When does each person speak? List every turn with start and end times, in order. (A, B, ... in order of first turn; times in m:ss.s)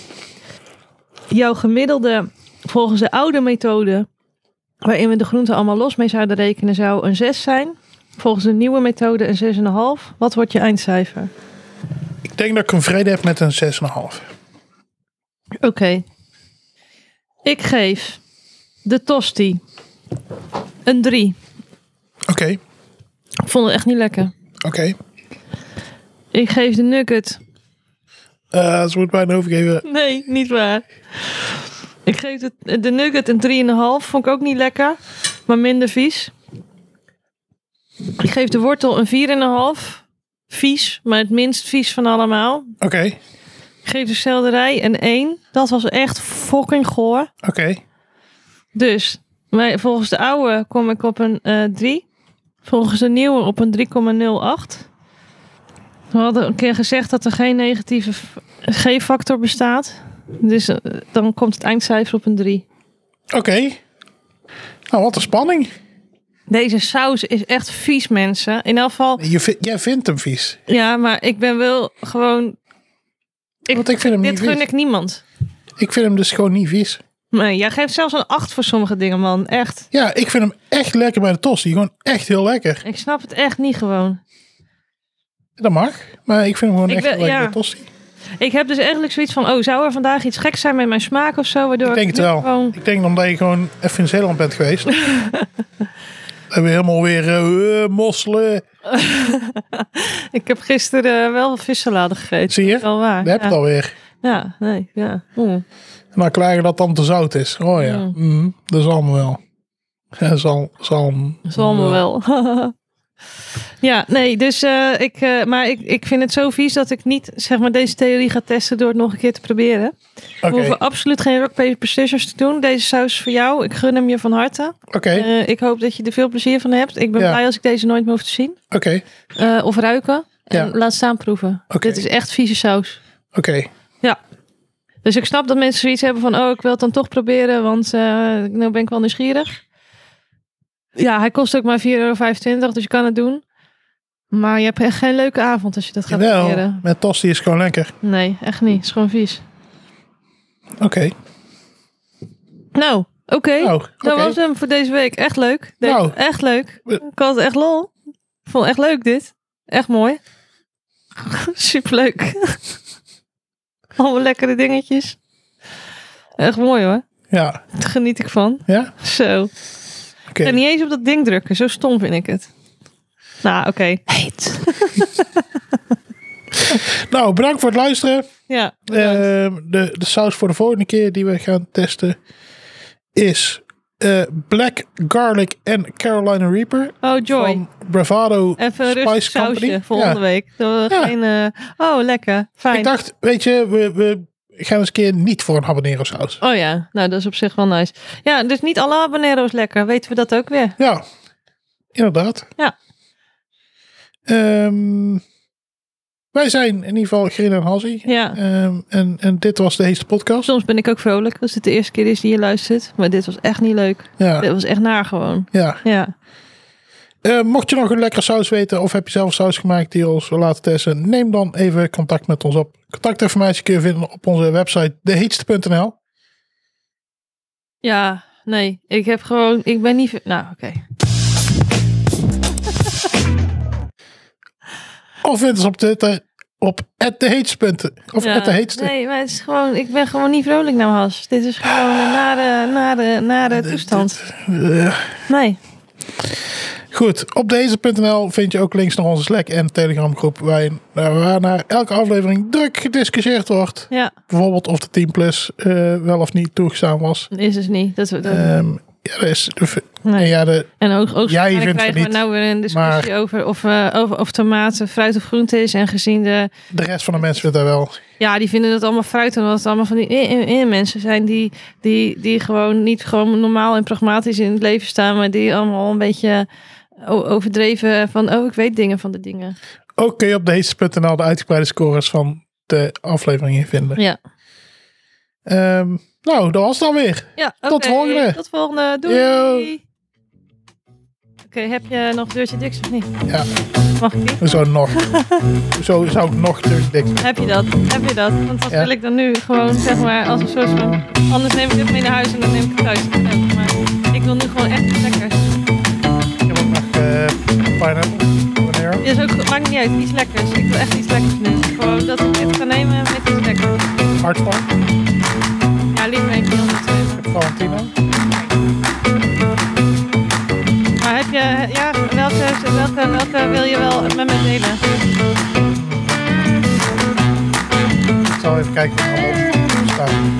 0:01.3-0:04.1 A
0:04.8-0:11.3 A
0:12.2-0:14.3 B
0:15.6-0:16.0 A
0:17.4-0:18.2 A
0:18.8-0:19.6 A
0:20.8-0:21.4 A
0:22.3-0:22.6 B
0:23.4-0:24.3 A
0:24.6-0:25.0 B
0:26.3-0:27.4 A
0:28.5-0:29.8 B
0:29.8-0:31.5 A
0:32.0-0:36.3 A
0:38.2-0:42.7 A
0:42.8-0:43.2 B
0:43.8-0:47.3 A
0:47.4-0:47.8 B
0:48.7-0:52.0 A
0:52.6-0:54.8 A
0:56.1-1:02.6 A
1:03.3-1:03.8 B
1:04.9-1:05.7 B
1:06.5-1:09.2 A
1:09.2-1:10.6 B
1:10.7-1:12.6 A
1:13.7-1:14.6 B
1:13.7-1:15.2 A
1:15.8-1:17.0 B
1:17.3-1:19.9 A
1:19.9-1:22.8 B
1:22.8-1:24.2 A
1:25.6-1:27.9 B
1:26.9-1:27.6 A
1:28.4-1:32.7 A
1:31.9-1:34.9 B
1:35.0-1:35.5 A
1:36.5-1:38.6 B
1:38.9-1:43.6 A
1:42.5-1:43.9 B
1:44.2-1:45.6 A
1:46.1-1:49.4 B
1:47.8-1:48.2 A
1:50.2-1:52.0 B
1:51.5-1:52.7 A
1:53.8-1:59.9 A
2:00.4-2:00.8 B
2:00.5-2:08.6 A
2:04.9-2:05.3 B
2:08.7-2:09.0 B
2:09.3-2:13.0 A
2:11.7-2:12.0 B
2:13.3-2:13.7 B
2:15.0-2:19.6 A
2:21.0-2:23.4 A
2:24.3-2:26.8 A
2:26.1-2:27.9 B
2:28.0-2:29.4 A
2:30.8-2:31.1 B
2:32.7-2:37.9 A
2:33.6-2:34.4 B
2:35.8-2:36.2 B
2:38.5-2:40.2 A
2:41.2-2:42.6 A
2:44.0-2:45.2 A
2:46.4-2:47.0 A
2:47.3-2:47.6 B
2:47.7-2:49.5 A
2:48.7-2:48.9 B
2:50.3-2:50.6 B
2:50.4-2:52.5 A
2:53.4-2:55.3 A
2:56.6-2:58.3 B
2:58.5-2:59.2 A
2:58.9-3:02.2 B
3:03.1-3:10.2 B
3:07.0-3:07.6 A
3:08.6-3:12.9 A
3:12.7-3:16.4 B
3:16.4-3:20.8 A
3:20.8-3:21.0 B
3:21.9-3:22.4 B
3:24.2-3:25.2 B
3:26.3-3:30.5 B
3:28.0-3:28.4 A
3:30.4-3:36.1 A
3:34.2-3:34.5 B
3:35.5-3:35.8 B
3:37.2-3:46.0 B
3:47.8-3:50.8 A
3:55.2-3:58.9 B
3:58.2-4:04.2 A
4:03.5-4:05.2 B
4:05.3-4:05.6 A
4:06.9-4:17.3 B
4:17.3-4:18.5 A
4:18.2-4:20.7 B
4:20.0-4:26.5 A
4:21.2-4:23.1 B
4:26.7-4:28.0 B
4:28.2-4:36.5 A
4:37.0-4:39.6 A
4:40.0-4:44.0 B
4:45.4-4:48.4 B
4:47.4-4:49.8 A
4:49.0-4:49.7 B
4:51.5-4:53.1 A
4:54.0-4:54.4 A
4:54.4-4:55.1 B
4:54.9-4:55.5 A
4:55.7-4:57.4 B
4:57.2-5:05.5 A
5:06.4-5:09.0 B
5:09.0-5:13.9 A
5:14.2-5:14.7 B
5:15.9-5:17.2 A
5:17.2-5:17.9 B
5:21.0-5:24.8 A
5:25.7-5:26.2 B
5:28.4-5:30.2 B